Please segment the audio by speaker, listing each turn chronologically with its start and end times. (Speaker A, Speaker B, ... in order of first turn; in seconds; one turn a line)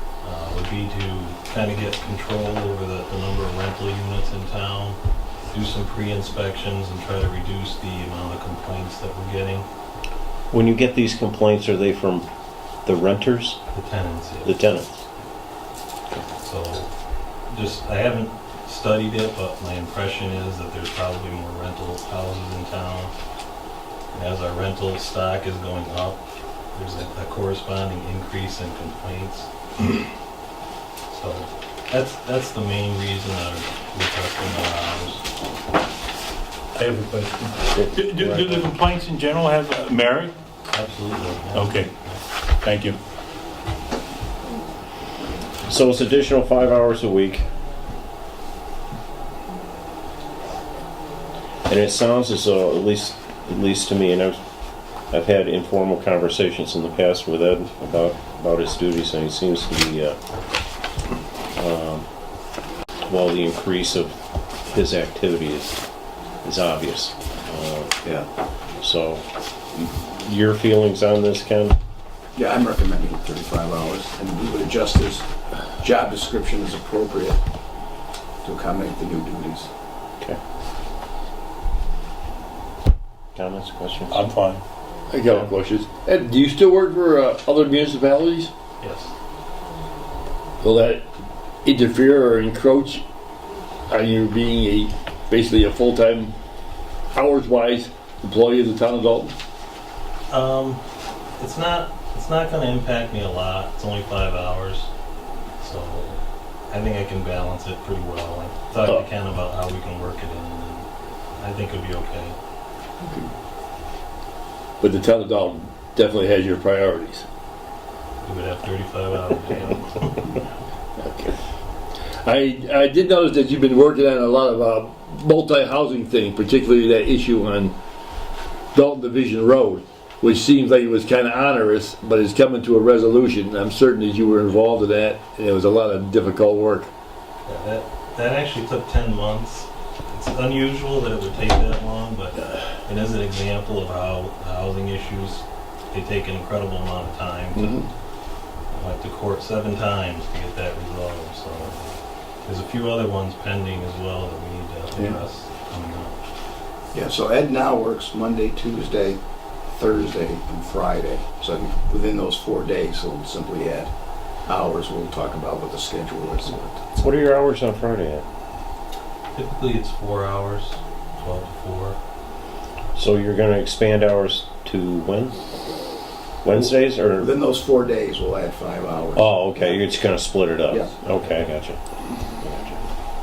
Speaker A: 0.2-5.0
Speaker A: 5.5-9.7
Speaker B: 10.5-12.3
Speaker B: 12.8-13.6
Speaker A: 13.7-14.8
Speaker B: 14.4-14.9
Speaker A: 16.4-16.9
Speaker A: 17.5-23.1
Speaker A: 24.1-26.2
Speaker A: 26.7-29.5
Speaker A: 31.1-35.2
Speaker C: 36.7-40.3
Speaker B: 37.7-38.6
Speaker A: 40.7-42.2
Speaker C: 41.5-41.9
Speaker C: 42.6-43.0
Speaker B: 45.6-47.5
Speaker B: 51.7-54.4
Speaker B: 55.1-60.2
Speaker B: 61.5-62.0
Speaker B: 63.0-64.1
Speaker B: 64.7-65.8
Speaker B: 66.4-67.9
Speaker B: 68.8-71.8
Speaker D: 72.3-75.2
Speaker D: 75.8-77.4
Speaker D: 78.4-79.7
Speaker B: 83.3-84.2
Speaker C: 84.1-84.6
Speaker E: 85.1-88.5
Speaker A: 88.8-89.1
Speaker E: 90.6-91.0
Speaker E: 91.6-93.0
Speaker E: 93.9-96.3
Speaker E: 97.1-99.3
Speaker A: 100.3-100.8
Speaker A: 101.4-104.9
Speaker A: 105.6-112.4
Speaker E: 113.0-113.3
Speaker E: 114.8-117.2
Speaker A: 118.2-120.4
Speaker E: 121.0-121.3
Speaker E: 122.2-127.7
Speaker E: 128.7-136.9
Speaker A: 137.4-147.7
Speaker E: 147.5-147.9
Speaker A: 148.7-151.8
Speaker A: 152.4-156.2
Speaker D: 156.9-159.2
Speaker D: 159.8-163.9
Speaker D: 164.5-167.0
Speaker B: 167.0-168.2
Speaker A: 169.3-172.0
Speaker B: 172.9-175.4
Speaker B: 176.4-177.3
Speaker D: 176.5-179.3
Speaker B: 179.1-181.8
Speaker D: 180.7-180.9
Speaker B: 182.4-182.8